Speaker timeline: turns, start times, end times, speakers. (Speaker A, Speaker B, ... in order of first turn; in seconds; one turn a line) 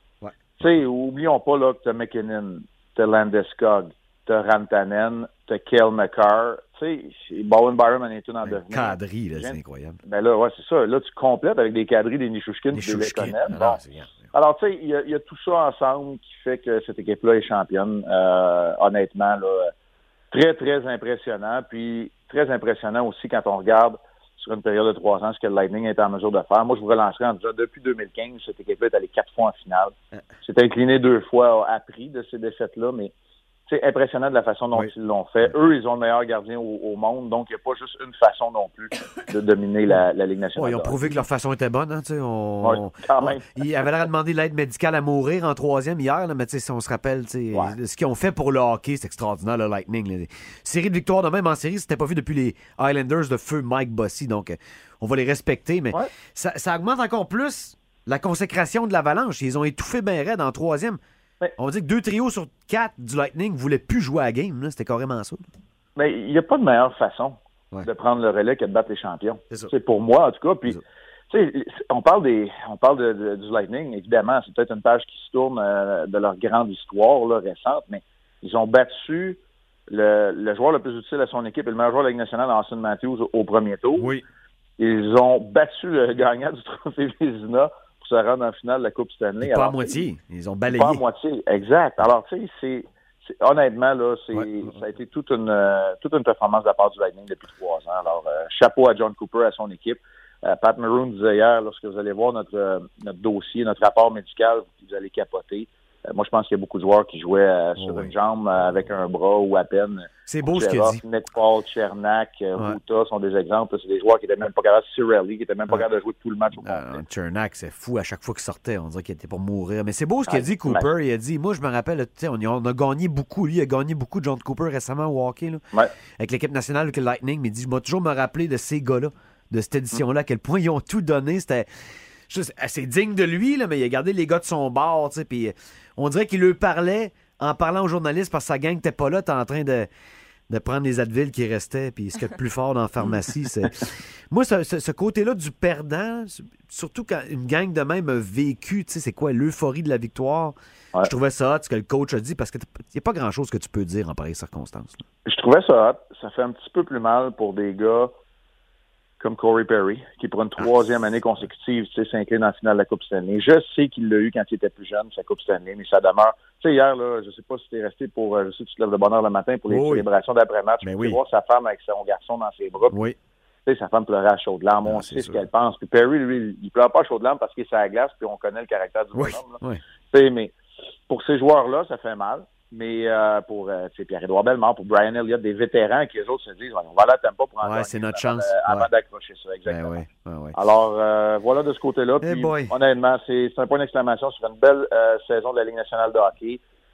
Speaker A: 0.6-13.8
Speaker B: 8.4-10.0
Speaker B: 12.7-14.3
Speaker A: 14.3-19.7
Speaker A: 20.3-33.1
Speaker A: 33.7-41.2
Speaker B: 40.6-61.0
Speaker A: 42.6-43.5
Speaker B: 61.6-65.5
Speaker A: 66.0-84.1
Speaker B: 84.0-84.2
Speaker A: 84.8-90.0
Speaker B: 89.4-91.0
Speaker A: 90.7-92.9
Speaker A: 93.4-117.0
Speaker B: 94.3-94.7
Speaker B: 107.8-108.6
Speaker B: 110.3-111.0
Speaker B: 116.6-125.6
Speaker A: 120.3-120.9
Speaker B: 126.2-131.7
Speaker B: 132.3-139.9
Speaker B: 140.5-155.0
Speaker A: 155.2-158.1
Speaker A: 159.2-172.9
Speaker B: 169.7-170.1
Speaker B: 170.8-171.2
Speaker B: 172.9-173.2
Speaker A: 173.7-179.6
Speaker B: 174.8-175.4
Speaker B: 179.2-179.8
Speaker A: 180.1-180.5
Speaker A: 181.1-190.0
Speaker B: 187.6-188.9
Speaker B: 189.7-190.6
Speaker A: 190.5-196.6
Speaker B: 192.2-192.7